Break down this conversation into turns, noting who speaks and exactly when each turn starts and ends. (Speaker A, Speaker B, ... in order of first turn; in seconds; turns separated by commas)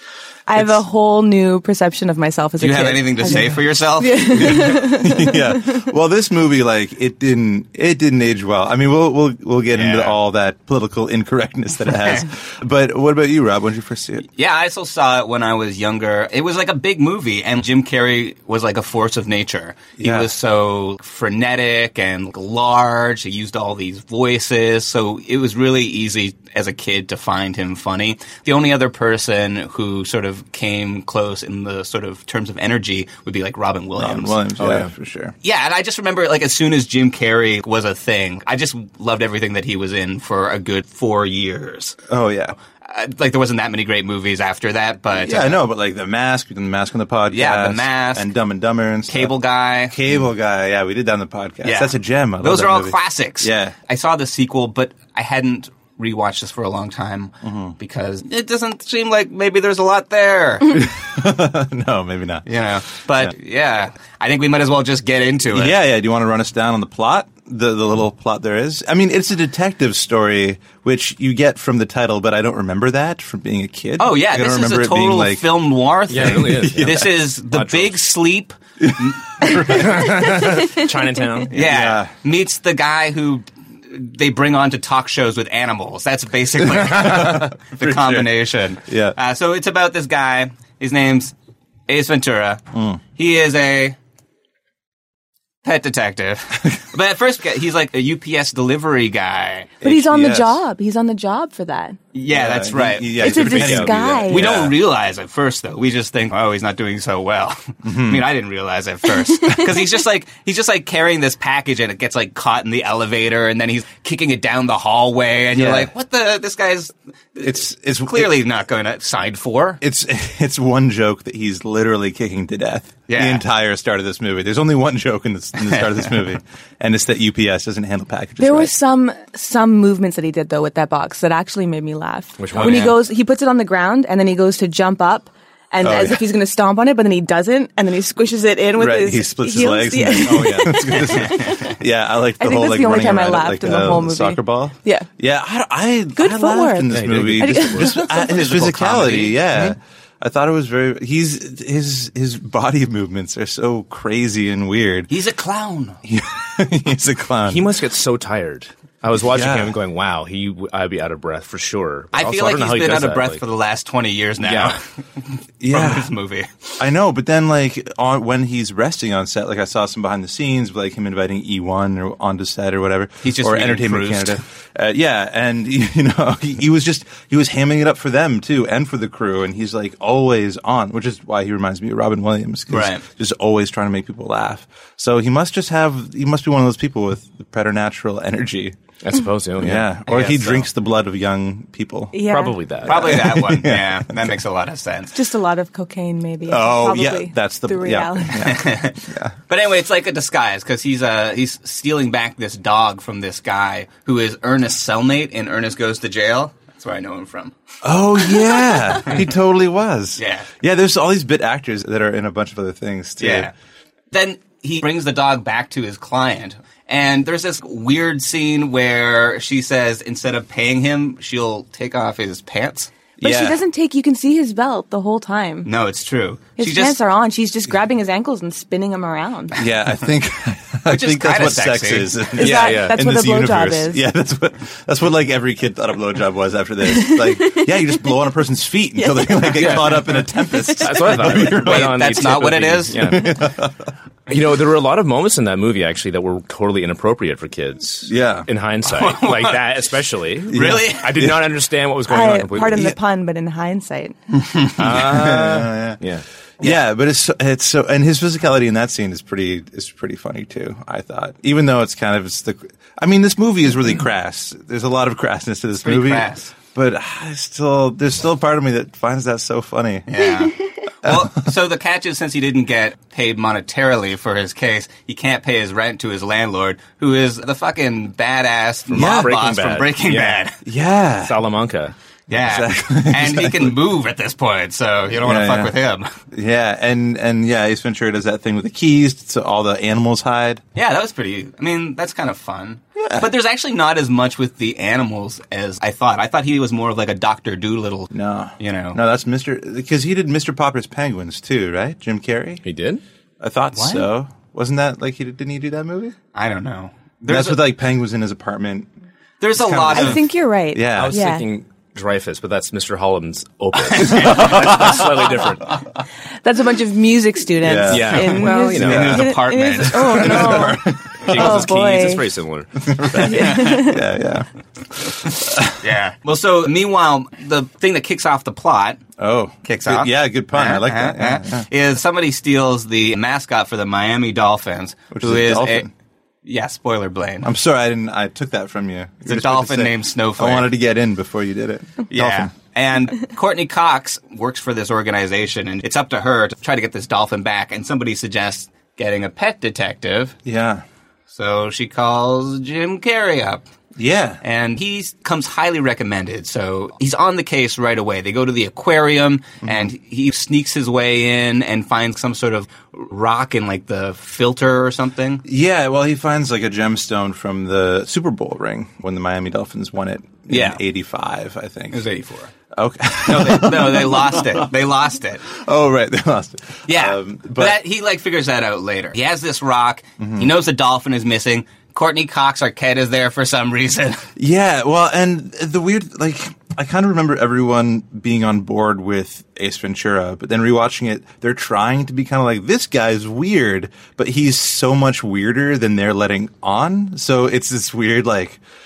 Speaker A: 0.5-5.5, Speaker B: 0.5-0.8, Speaker C: 2.6-4.7, Speaker B: 4.3-14.2, Speaker C: 9.7-10.2, Speaker C: 11.9-12.3, Speaker C: 14.3-34.4, Speaker B: 20.0-20.3, Speaker B: 34.0-35.3, Speaker D: 34.6-34.9, Speaker C: 35.4-42.0, Speaker B: 42.1-42.5, Speaker C: 42.8-45.6, Speaker B: 45.1-49.3, Speaker C: 47.3-48.3, Speaker C: 49.1-50.0, Speaker B: 49.9-53.7, Speaker C: 51.6-60.8, Speaker B: 57.4-57.8, Speaker B: 60.7-62.5, Speaker C: 62.5-65.8, Speaker B: 65.5-75.5, Speaker C: 74.0-78.5, Speaker D: 76.1-78.0, Speaker B: 76.1-77.1, Speaker B: 78.8-80.5, Speaker D: 79.7-81.5, Speaker B: 81.5-82.1, Speaker C: 81.5-91.3, Speaker B: 86.6-88.3, Speaker B: 88.8-89.2, Speaker C: 91.9-92.6, Speaker B: 92.7-93.0, Speaker C: 93.2-94.0, Speaker C: 95.6-99.7, Speaker B: 99.8-100.6, Speaker A: 99.8-102.0, Speaker C: 102.1-103.2, Speaker B: 102.3-104.7, Speaker A: 103.2-104.5, Speaker D: 103.2-104.7, Speaker C: 104.3-119.8, Speaker B: 107.8-108.3, Speaker B: 115.5-115.9, Speaker B: 117.4-118.3, Speaker B: 119.8-128.7, Speaker C: 123.1-123.4, Speaker C: 125.6-126.3, Speaker A: 128.4-141.5, Speaker D: 132.4-133.0, Speaker C: 132.5-132.9, Speaker B: 135.8-136.3, Speaker B: 138.8-155.1, Speaker D: 140.2-140.9, Speaker C: 141.2-141.7, Speaker A: 142.4-145.1, Speaker A: 146.2-148.1, Speaker D: 146.9-147.9, Speaker C: 148.1-149.4, Speaker C: 155.1-156.0, Speaker B: 156.0-157.7, Speaker D: 157.4-163.4, Speaker B: 159.3-159.8, Speaker C: 162.1-164.8, Speaker D: 164.4-164.8, Speaker B: 165.6-166.1, Speaker C: 165.7-166.5, Speaker B: 166.8-188.8, Speaker C: 173.2-174.4, Speaker C: 182.7-183.0, Speaker D: 189.0-189.9, Speaker B: 189.6-192.2, Speaker C: 190.1-190.7, Speaker A: 192.1-192.6, Speaker D: 192.2-193.2, Speaker C: 192.8-195.1, Speaker B: 192.8-194.2, Speaker A: 195.1-198.4, Speaker B: 196.5-199.3, Speaker C: 198.4-199.0, Speaker C: 199.5-207.5, Speaker B: 207.8-213.5, Speaker C: 210.2-210.5, Speaker C: 213.2-213.5, Speaker C: 214.1-222.9, Speaker B: 223.2-223.6, Speaker A: 223.2-225.7, Speaker C: 225.6-227.0, Speaker A: 226.6-229.6, Speaker B: 229.6-242.2, Speaker C: 230.9-232.3, Speaker D: 232.4-233.0, Speaker A: 232.4-234.0, Speaker A: 236.9-237.7, Speaker A: 239.0-239.8, Speaker D: 239.6-240.0, Speaker A: 240.4-240.8, Speaker D: 240.8-243.4, Speaker C: 241.5-243.1, Speaker B: 243.1-243.7, Speaker D: 244.3-252.9, Speaker B: 248.1-248.5, Speaker C: 248.9-249.7, Speaker B: 250.5-251.4, Speaker C: 250.5-251.1, Speaker A: 252.1-254.1, Speaker D: 254.8-256.2, Speaker B: 254.8-256.0, Speaker B: 256.6-270.2, Speaker C: 265.8-266.5, Speaker C: 270.1-280.6, Speaker B: 271.0-271.3, Speaker B: 278.9-279.4, Speaker D: 278.9-280.4, Speaker B: 280.6-281.4, Speaker D: 281.2-281.9, Speaker C: 282.3-286.1, Speaker B: 282.3-283.8, Speaker B: 285.2-285.7, Speaker B: 286.3-290.6, Speaker C: 290.7-299.0, Speaker B: 293.0-293.3, Speaker B: 298.1-302.6, Speaker D: 302.6-303.0, Speaker B: 303.4-306.1, Speaker C: 303.7-304.1, Speaker C: 306.3-307.7, Speaker B: 307.3-308.9, Speaker C: 309.4-310.2, Speaker B: 309.5-310.2, Speaker A: 309.9-311.5, Speaker B: 310.7-311.2, Speaker D: 310.9-315.8, Speaker C: 313.9-314.5, Speaker B: 314.1-315.1, Speaker A: 316.4-322.2, Speaker B: 317.6-319.2, Speaker D: 317.9-319.5, Speaker C: 318.7-320.3, Speaker B: 320.0-321.7, Speaker D: 320.3-320.6, Speaker D: 321.2-323.5, Speaker B: 322.8-325.8, Speaker A: 323.3-324.0, Speaker C: 325.8-329.0, Speaker B: 329.2-331.6, Speaker C: 329.6-335.9, Speaker B: 335.1-335.9, Speaker C: 336.4-337.5, Speaker B: 337.4-342.5, Speaker C: 339.2-340.7, Speaker C: 342.1-350.4, Speaker B: 350.4-350.8, Speaker C: 351.3-353.6, Speaker B: 354.0-354.4, Speaker C: 354.4-365.4, Speaker B: 359.6-359.9, Speaker B: 365.4-372.0, Speaker C: 370.5-370.8, Speaker C: 371.9-372.5, Speaker B: 372.7-374.7, Speaker C: 373.3-375.4, Speaker B: 375.5-377.8, Speaker C: 376.9-384.2, Speaker B: 380.2-380.5, Speaker B: 384.4-398.6